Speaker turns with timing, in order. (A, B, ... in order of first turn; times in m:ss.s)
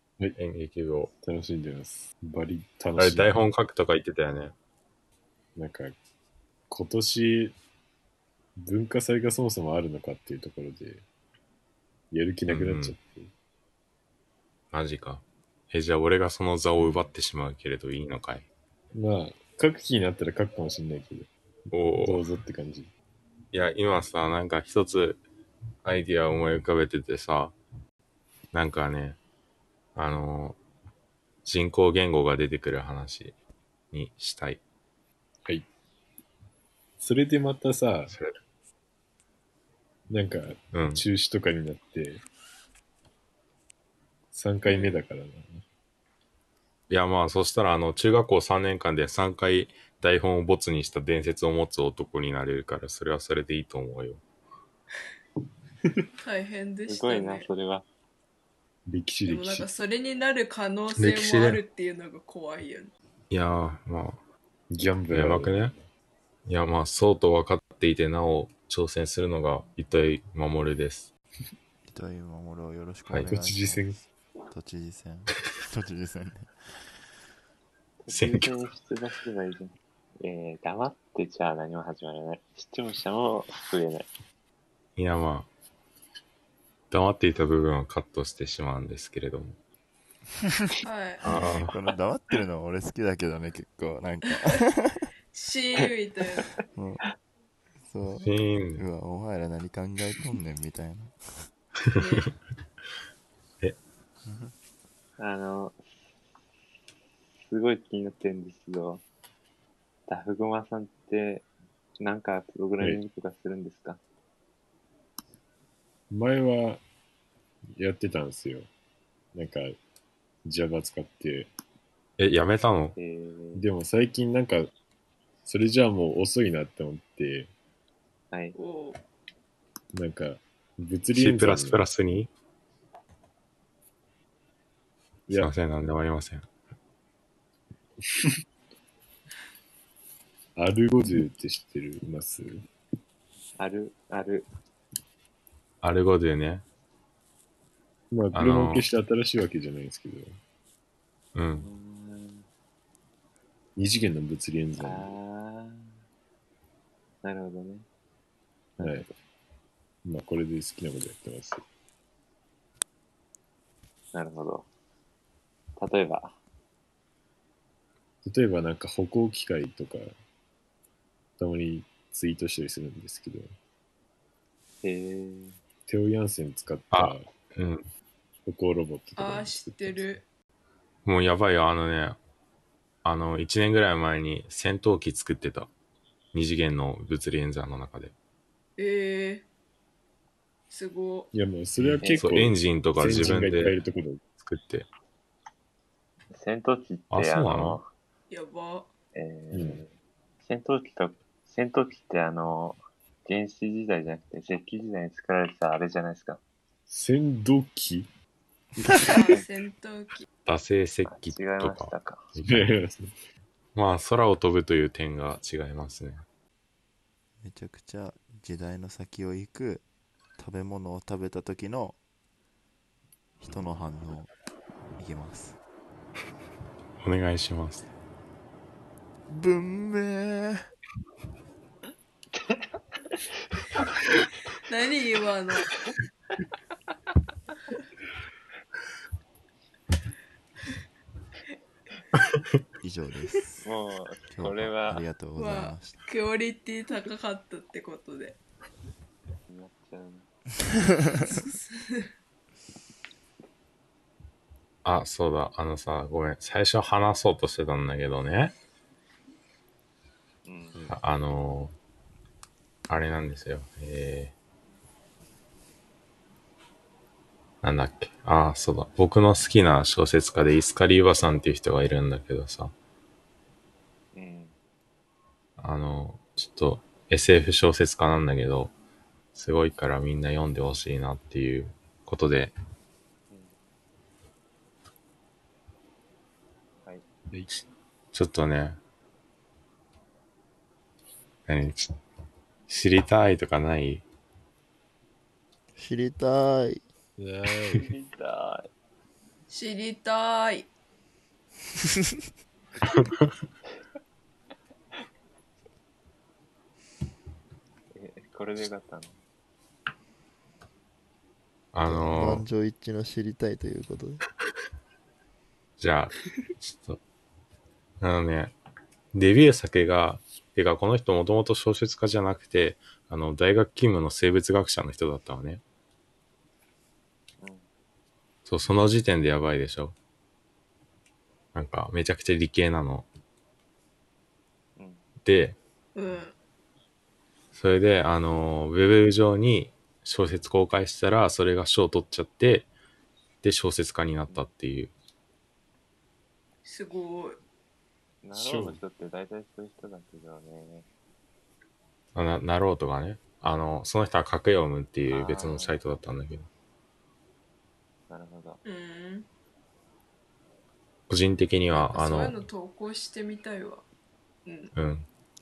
0:00.4-0:01.1 A
0:01.2-0:03.3 B
0:03.0-0:04.5 A
0:05.6-0:06.0 B
0:06.7-0:07.6 B
0:08.6-0:11.0 B
0:12.1-0:13.3 B
0:12.5-0:13.0 A
0:14.7-0:18.4 A
0:16.8-0:17.1 B
0:18.9-0:21.3 B
0:21.7-0:22.2 A
0:22.0-0:22.9 B
0:23.5-0:25.2 A
0:25.8-0:27.5 A
0:28.5-0:29.2 A
0:29.9-0:30.6 A
0:31.4-0:33.3 A
0:33.9-0:34.6 A
0:37.0-0:38.1 B
0:38.1-0:38.4 A
0:40.1-0:42.2 B
0:40.7-0:41.0 A
0:44.3-0:45.6 B
0:44.6-0:45.0 C
0:46.9-0:54.2 A
0:56.2-0:57.5 C
0:56.9-0:57.8 D
0:58.9-0:59.7 B
0:59.2-1:02.9 C
1:01.0-1:01.6 A
1:03.3-1:04.2 A
1:04.7-1:05.7 B
1:05.1-1:05.7 A
1:06.4-1:11.1 A
1:11.8-1:13.9 E
1:13.2-1:14.0 B
1:14.5-1:16.5 E
1:18.0-1:24.1 D
1:18.1-1:18.6 A
1:25.0-1:25.5 A
1:26.9-1:29.6 A
1:30.8-1:31.5 C
1:31.2-1:31.7 A
1:31.3-1:35.1 E
1:35.3-1:36.5 C
1:36.7-1:37.0 E
1:37.8-1:41.5 E
1:38.2-1:38.8 A
1:41.8-1:42.3 A
1:41.9-1:42.3 C
1:44.2-1:44.5 E
1:45.2-1:45.9 D
1:47.4-1:49.0 D
1:50.1-1:51.5 D
1:52.0-1:54.0 D
1:56.1-1:56.8 B
1:57.8-1:58.7 B
1:59.3-1:59.8 B
2:00.4-2:01.5 B
2:02.2-2:03.0 A
2:03.0-2:03.6 D
2:03.5-2:04.7 B
2:05.4-2:07.5 B
2:08.3-2:08.6 D
2:08.6-2:09.0 C
2:09.9-2:11.8 B
2:11.1-2:12.3 A
2:15.3-2:15.5 B
2:15.3-2:16.4 A
2:18.0-2:18.3 B
2:20.6-2:22.6 B
2:23.6-2:24.4 D
2:25.8-2:26.6 A
2:28.1-2:30.3 B
2:28.3-2:28.8 A
2:31.3-2:31.7 A
2:31.6-2:32.4 D
2:33.8-2:35.2 B
2:34.8-2:35.9 D
2:37.2-2:37.8 D
2:38.8-2:39.1 B
2:38.8-2:39.1 D
2:40.0-2:41.6 B
2:44.1-2:44.7 D
2:45.8-2:46.4 D
2:48.2-2:50.1 B
2:51.4-2:53.5 B
2:54.8-2:55.6 D
2:55.9-2:57.3 B
2:56.9-2:57.8 A
2:58.4-3:00.2 B
2:59.2-3:00.2 C
3:01.0-3:02.2 A
3:03.0-3:05.7 A
3:06.3-3:08.1 A
3:08.8-3:09.4 C
3:10.7-3:11.3 C
3:11.3-3:14.2 B
3:11.8-3:13.8 A
3:12.0-3:12.4 D
3:14.4-3:14.9 A
3:16.3-3:17.9 D
3:17.1-3:17.8 A
3:18.3-3:18.9 C
3:19.1-3:19.9 D
3:19.5-3:19.8 B
3:20.4-3:26.4 D
3:26.9-3:28.1 B
3:28.8-3:29.4 B
3:29.0-3:30.2 C
3:30.4-3:32.7 A
3:31.1-3:32.3 D
3:32.4-3:33.1 B
3:33.7-3:36.2 A
3:37.4-3:39.8 E
3:40.4-3:42.0 E
3:43.4-3:44.3 E
3:45.0-3:45.6 E
3:47.0-3:47.8 A
3:49.3-3:50.6 E
3:54.6-3:55.7 C
4:02.8-4:03.6 E
4:03.6-4:05.0 D
4:04.3-4:06.0 E
4:05.4-4:08.4 C
4:09.5-4:10.2 D
4:10.9-4:11.2 E
4:11.2-4:12.1 C
4:14.8-4:18.5 A
4:20.4-4:20.8 D
4:20.9-4:21.7 A
4:22.9-4:24.3 A
4:27.6-4:32.7 A
4:34.1-4:34.5 D
4:35.6-4:38.7 A
4:39.3-4:42.5 A
4:47.3-4:47.6 B
4:48.1-4:48.8 A
4:51.5-4:51.9 A
4:52.7-4:54.0 A
4:55.8-4:56.8 E
4:57.2-4:57.9 B
4:57.7-4:58.7 D
4:59.5-5:00.7 C
5:07.9-5:09.2 D
5:11.7-5:12.4 A
5:11.8-5:14.2 E
5:15.8-5:17.0 A
5:18.0-5:18.5 A
5:19.1-5:25.6 A
5:27.4-5:27.7 D
5:28.4-5:29.9 A
5:31.5-5:33.0 A
5:34.8-5:35.0 D
5:35.2-5:35.6 A
5:35.9-5:36.3 C
5:37.5-5:42.7 A
5:43.4-5:44.9 A
5:46.6-5:47.4 C
5:48.2-5:50.8 D
5:48.3-5:48.8 B
5:52.1-5:56.5 A
5:55.1-5:55.8 D
5:58.1-5:58.6 D
5:58.6-5:59.3 C
6:01.1-6:02.4 A
6:01.7-6:03.8 C
6:04.4-6:04.7 C
6:04.7-6:05.1 A